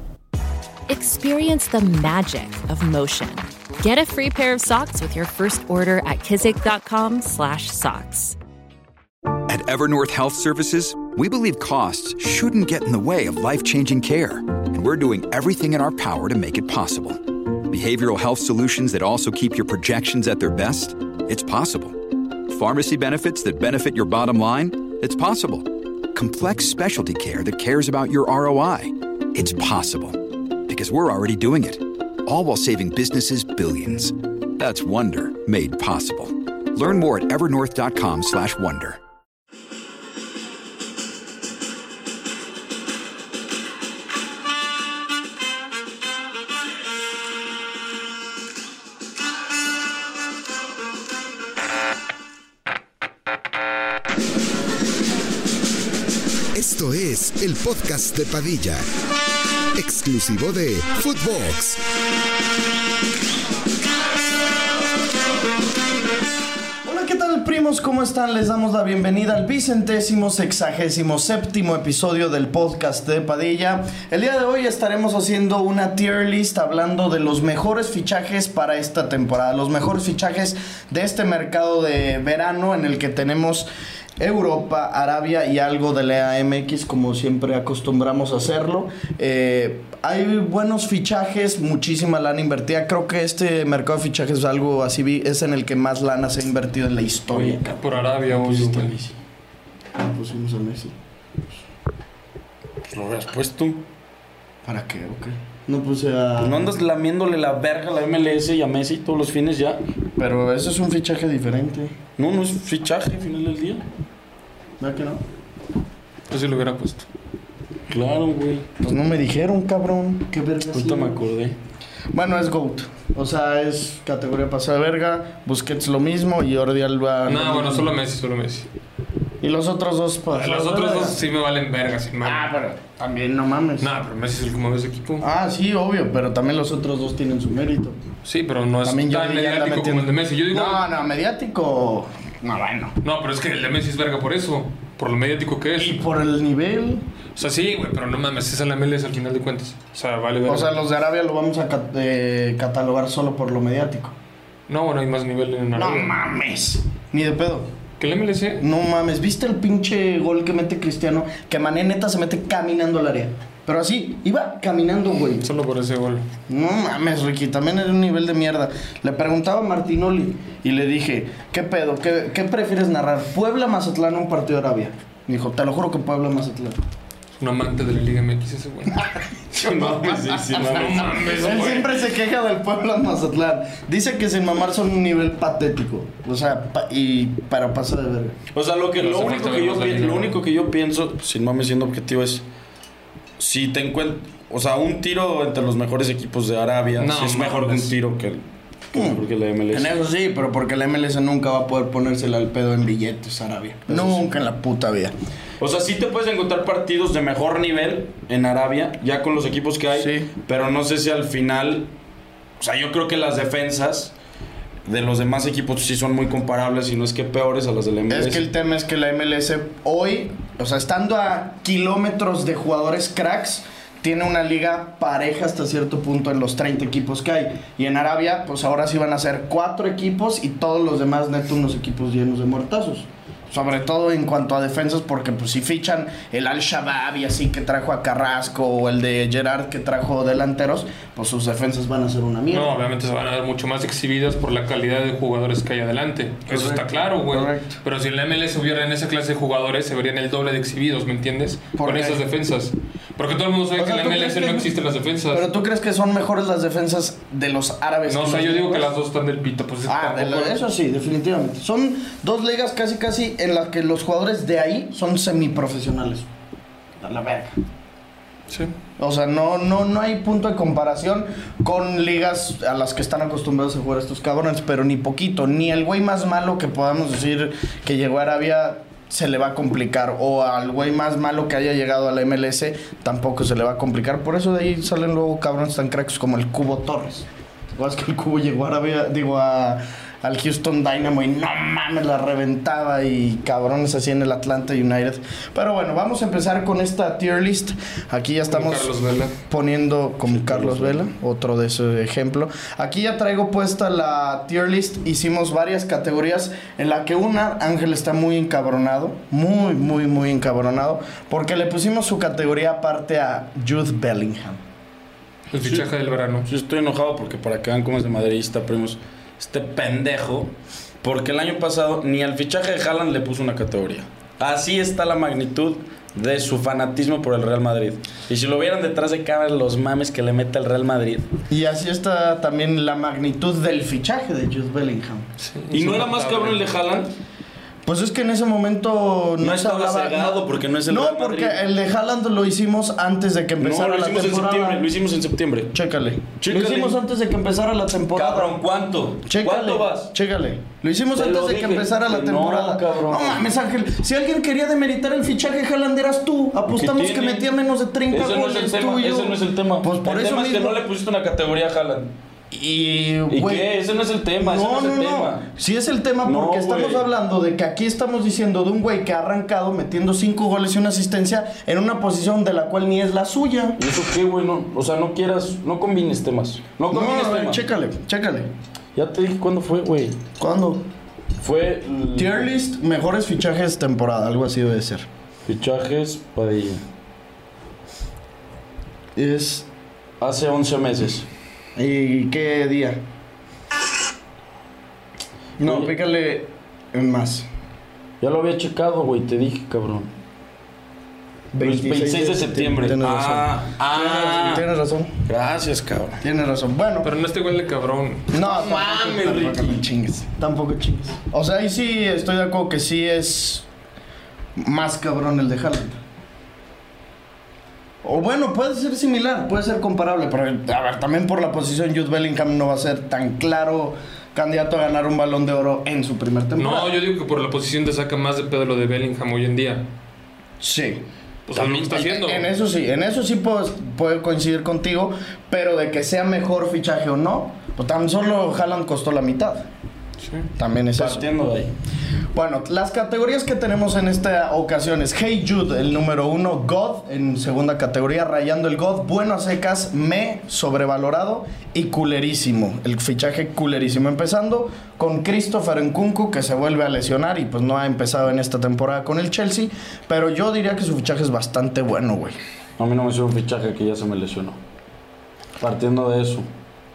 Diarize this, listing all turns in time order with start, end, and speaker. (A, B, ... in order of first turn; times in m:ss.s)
0:00.9-0:08.4 A
0:09.5-0:39.0 B
0:56.5-0:58.8 C
0:59.8-1:01.8 C
1:06.8-1:23.7 D
1:24.2-1:37.8 D
1:37.3-1:37.6 E
1:37.7-1:38.9 F
1:38.2-1:39.2 E
1:40.0-1:41.0 D
1:42.9-1:43.8 E
1:44.6-1:46.6 D
1:46.4-1:49.8 E
1:50.2-1:52.0 D
1:52.2-1:53.8 E
1:54.8-1:55.2 D
1:56.3-1:57.1 F
1:57.9-1:58.7 E
1:58.8-2:01.2 D
2:00.7-2:01.6 E
2:02.1-2:07.9 D
2:07.3-2:08.7 F
2:09.4-2:11.2 D
2:10.3-2:12.5 F
2:12.2-2:13.9 D
2:13.8-2:15.3 F
2:15.2-2:18.0 D
2:18.2-2:20.8 F
2:18.8-2:23.0 D
2:23.0-2:26.0 F
2:25.8-2:27.0 D
2:27.4-2:30.8 F
2:30.5-2:34.2 D
2:34.7-2:36.2 F
2:35.8-2:37.7 D
2:38.0-2:38.6 F
2:38.6-2:45.4 D
2:45.4-2:46.3 F
2:46.5-2:56.8 D
2:57.4-2:59.0 F
2:59.0-3:08.4 D
2:59.5-3:01.1 E
3:00.5-3:02.1 F
3:08.5-3:12.4 E
3:09.0-3:10.4 F
3:13.4-3:19.9 E
3:17.0-3:17.9 F
3:18.9-3:25.1 D
3:23.9-3:24.4 E
3:25.6-3:31.9 E
3:29.9-3:30.3 D
3:32.6-3:34.1 E
3:34.9-3:38.5 E
3:38.1-4:02.8 D
4:02.5-4:15.5 F
4:06.5-4:07.8 D
4:11.8-4:12.2 D
4:13.8-4:14.7 D
4:15.3-4:18.9 D
4:18.1-4:20.6 F
4:19.9-4:26.3 D
4:27.0-4:27.6 D
4:28.5-4:28.8 F
4:29.0-4:47.3 D
4:47.8-4:58.9 D
4:58.5-4:59.4 F
4:59.5-5:14.6 D
5:00.3-5:01.1 E
5:15.5-5:16.5 F
5:15.6-5:15.9 E
5:16.4-5:31.3 E
5:31.5-5:35.3 D
5:35.4-5:36.7 F
5:35.7-5:37.1 E
5:37.9-5:44.8 D
5:39.4-5:41.6 E
5:43.6-5:45.7 E
5:45.7-5:48.6 D
5:46.4-5:47.0 E
5:48.1-5:50.1 E
5:49.2-6:00.8 D
5:51.2-5:53.4 E
5:56.8-5:57.5 E
5:58.1-6:02.1 E
6:02.5-6:03.7 D
6:03.3-6:05.4 E
6:04.4-6:13.8 D
6:06.2-6:07.0 E
6:13.8-6:17.6 E
6:16.9-6:18.5 D
6:19.0-6:20.2 E
6:20.4-6:20.9 D
6:21.4-6:22.4 E
6:22.1-6:25.1 D
6:25.5-6:26.8 E
6:29.2-6:29.7 D
6:30.2-6:31.3 E
6:31.8-6:33.0 D
6:35.6-6:37.5 D
6:35.6-6:35.9 E
6:38.2-6:40.1 E
6:41.5-6:45.3 D
6:41.6-6:44.7 E
6:45.3-6:46.2 E
6:46.2-6:47.1 D
6:47.0-6:49.8 F
6:48.3-6:53.7 D
6:54.6-6:56.0 D
6:58.0-7:06.9 D
7:06.6-7:09.9 F
7:10.6-7:11.0 D
7:11.5-7:12.5 F
7:11.6-7:19.7 D
7:20.2-7:20.5 F
7:20.6-7:21.2 D
7:21.0-7:21.7 E
7:22.3-7:42.4 D
7:42.8-7:44.6 E
7:45.6-7:46.5 E